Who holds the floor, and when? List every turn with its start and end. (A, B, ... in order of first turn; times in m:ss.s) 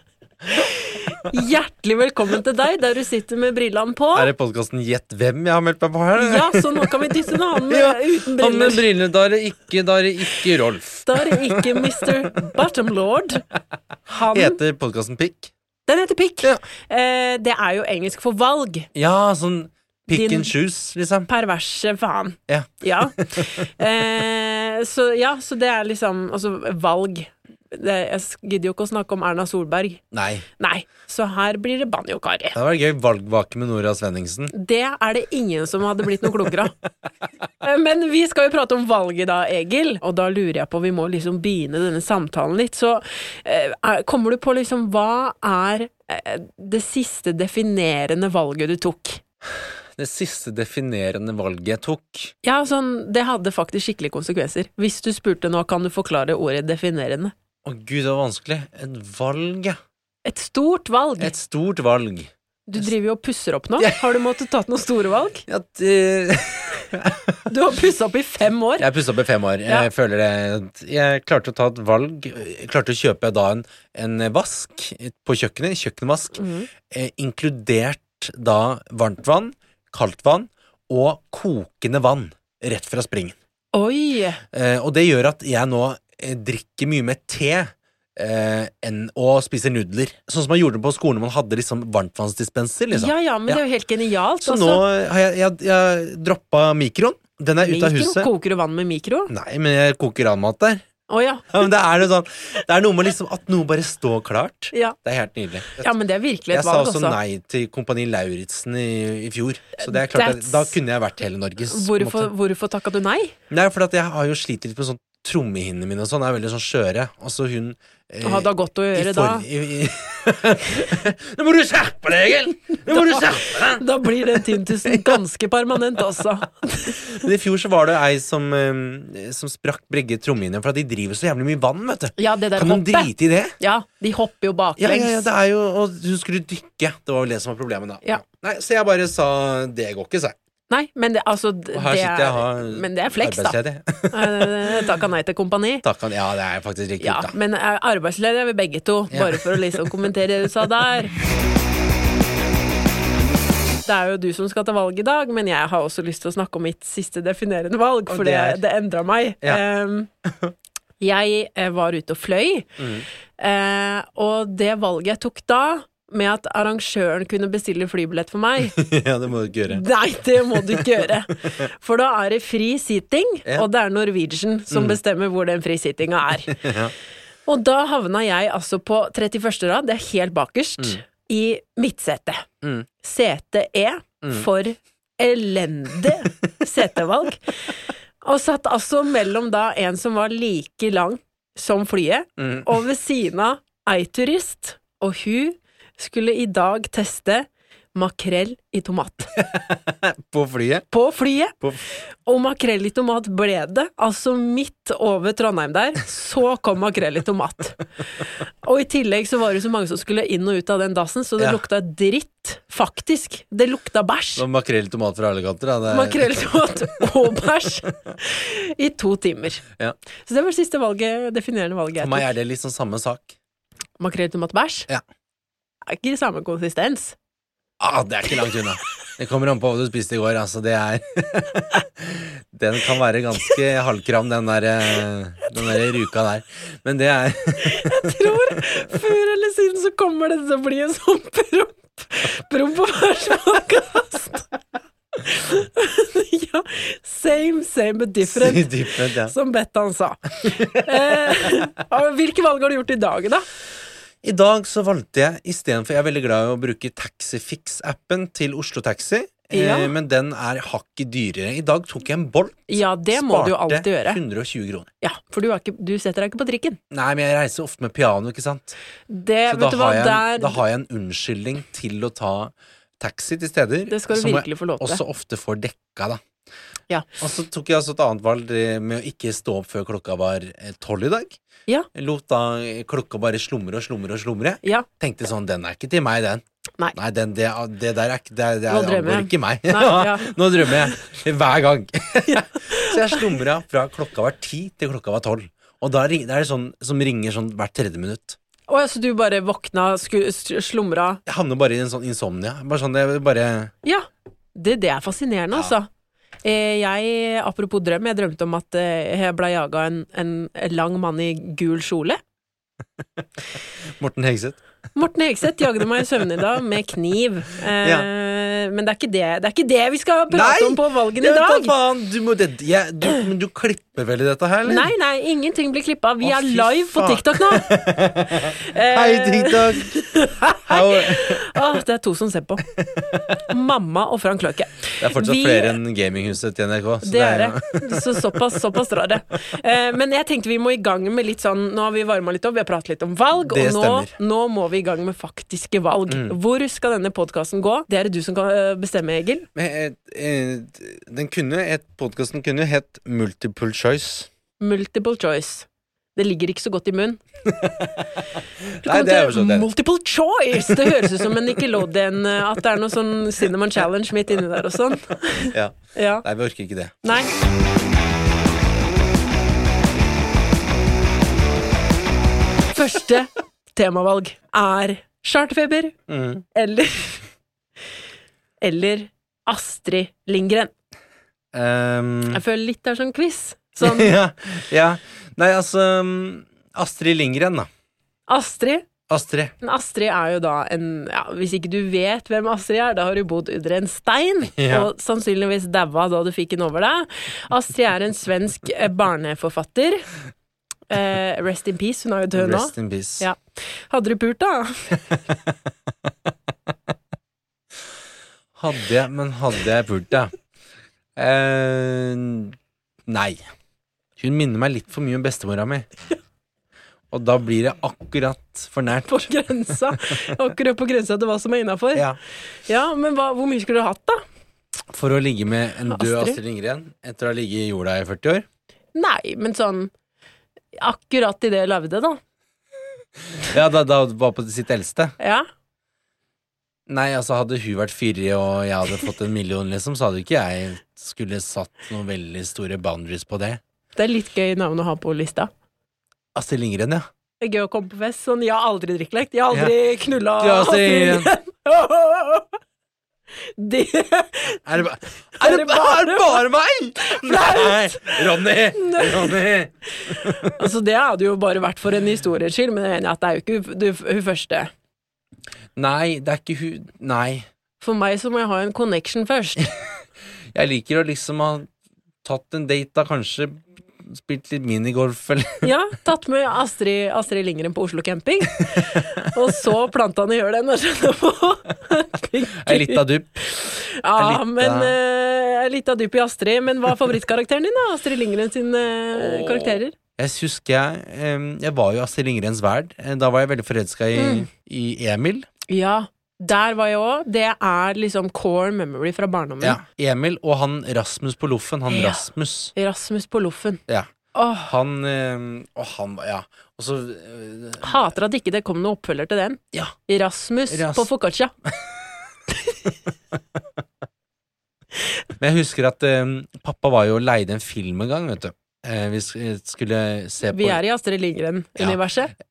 0:00.6-0:04.3 A
0:04.2-0:06.9 B
0:06.2-0:08.8 A
0:07.5-0:12.0 B
0:11.1-0:13.4 A
0:14.1-0:14.6 A
0:14.3-0:15.5 B
0:15.9-0:18.9 A
0:18.9-0:21.3 B
0:20.1-0:20.5 A
0:21.3-0:30.0 A
0:22.5-0:23.6 B
0:30.1-0:30.5 B
0:30.6-0:32.6 A
0:32.6-0:34.5 B
0:34.5-0:36.8 A
0:37.6-0:49.2 A
0:50.0-0:52.3 B
0:52.4-0:57.3 A
0:57.6-0:59.8 B
1:00.2-1:01.3 A
1:01.2-1:02.9 B
1:02.7-1:05.4 A
1:05.5-1:07.4 B
1:07.5-1:08.9 A
1:08.8-1:23.3 B
1:16.3-1:16.7 A
1:23.7-1:24.4 A
1:24.5-1:33.6 B
1:32.9-1:34.8 A
1:34.4-1:38.3 B
1:37.6-1:39.3 A
1:39.3-1:40.8 B
1:41.1-1:41.6 A
1:41.5-1:45.9 B
1:45.8-1:47.2 A
1:46.5-1:52.3 B
1:49.8-1:50.8 A
1:51.7-1:53.3 A
1:53.5-2:03.8 B
1:58.2-1:59.4 A
2:02.9-2:03.2 A
2:03.7-2:07.0 A
2:07.1-2:13.5 B
2:12.2-2:15.3 A
2:14.8-2:20.4 B
2:20.7-2:23.6 A
2:21.7-2:24.8 B
2:24.1-2:25.8 A
2:25.8-2:27.3 B
2:27.0-2:31.1 A
2:29.1-2:29.9 B
2:33.8-2:40.1 A
2:38.1-2:38.6 B
2:40.3-2:40.5 B
2:41.0-2:42.7 A
2:42.8-2:43.0 B
2:43.4-2:48.7 A
2:48.8-2:49.8 B
2:49.7-2:56.6 A
2:54.7-2:55.0 B
2:56.5-2:56.9 B
2:57.5-3:02.5 A
3:02.6-3:02.9 B
3:03.0-3:07.4 A
3:08.2-3:19.3 A
3:12.4-3:12.7 B
3:19.4-3:20.9 B
3:20.9-3:21.6 A
3:22.2-3:27.8 A
3:28.6-3:34.4 A
3:34.4-3:36.5 B
3:35.9-3:39.6 A
3:40.3-3:42.3 A
3:42.0-3:43.3 B
3:44.0-3:44.9 A
3:45.9-3:47.2 A
3:47.8-3:58.6 B
3:57.6-4:04.5 A
4:05.2-4:10.2 A
4:08.2-4:09.3 B
4:10.5-4:11.1 B
4:10.8-4:13.5 A
4:14.2-4:24.9 B
4:19.5-4:19.9 A
4:22.7-4:24.2 A
4:25.0-4:26.8 A
4:26.9-4:28.8 B
4:29.1-4:30.6 A
4:29.5-4:36.2 B
4:33.9-4:35.0 A
4:37.2-4:41.4 B
4:41.9-4:46.4 B
4:47.0-4:58.4 B
4:48.7-4:50.9 A
4:58.7-5:01.2 A
5:01.3-5:03.7 B
5:03.8-5:05.9 A
5:06.4-5:12.2 A
5:14.0-5:14.6 B
5:15.0-5:21.7 A
5:17.8-5:18.1 B
5:20.3-5:24.9 B
5:24.6-5:27.7 A
5:26.2-5:30.0 B
5:28.6-5:32.6 A
5:30.6-5:31.6 B
5:32.8-5:33.4 B
5:33.5-5:35.8 A
5:35.0-5:38.2 B
5:37.0-5:49.5 A
5:43.4-5:44.1 B
5:46.1-5:46.3 B
5:49.5-5:54.3 B
5:54.6-5:57.2 A
5:57.5-5:57.9 B
5:58.8-5:59.7 B
5:58.8-6:06.2 A
6:00.7-6:01.3 B
6:05.5-6:07.0 B
6:07.0-6:07.3 A
6:12.7-6:16.0 A
6:16.1-6:16.4 B
6:16.5-6:17.3 A
6:18.6-6:20.7 A
6:21.5-6:22.4 B
6:22.3-6:24.1 A
6:23.8-6:27.7 B
6:28.3-6:28.9 A
6:29.1-6:29.5 B
6:29.6-6:40.1 A
6:34.6-6:34.9 B
6:40.9-6:43.4 A
6:42.4-6:43.2 B
6:43.9-6:45.0 A
6:48.6-6:50.4 B
6:51.2-6:52.5 B
6:53.1-6:53.5 B
6:54.2-6:55.9 B
6:57.1-6:59.4 B
6:59.1-7:02.0 A
7:02.7-7:04.2 A
7:04.9-7:08.4 B
7:05.9-7:06.4 A
7:08.9-7:09.9 A
7:10.8-7:12.2 A
7:13.4-7:15.1 B
7:15.2-7:15.4 A
7:16.9-7:23.6 B
7:24.0-7:25.5 A
7:26.4-7:27.1 B
7:27.4-7:32.6 A
7:29.5-7:29.8 B
7:30.3-7:31.3 B
7:33.6-7:34.6 A
7:34.6-7:40.5 B
7:35.4-7:36.4 A
7:37.0-7:38.2 A
7:38.8-7:39.3 A
7:40.1-7:44.7 A
7:45.8-7:47.5 B
7:47.8-7:49.7 A
7:50.5-7:51.7 B
7:52.2-7:55.7 B
7:55.6-8:09.9 A
8:02.6-8:03.6 B
8:04.1-8:04.9 B
8:09.2-8:15.5 B
8:14.1-8:14.4 A
8:15.7-8:19.8 A
8:19.6-8:22.7 B
8:21.9-8:23.8 A
8:24.3-8:24.7 A
8:24.6-8:27.9 B
8:27.8-8:31.5 A
8:30.7-8:31.1 B
8:35.4-8:40.8 B
8:40.5-8:42.3 A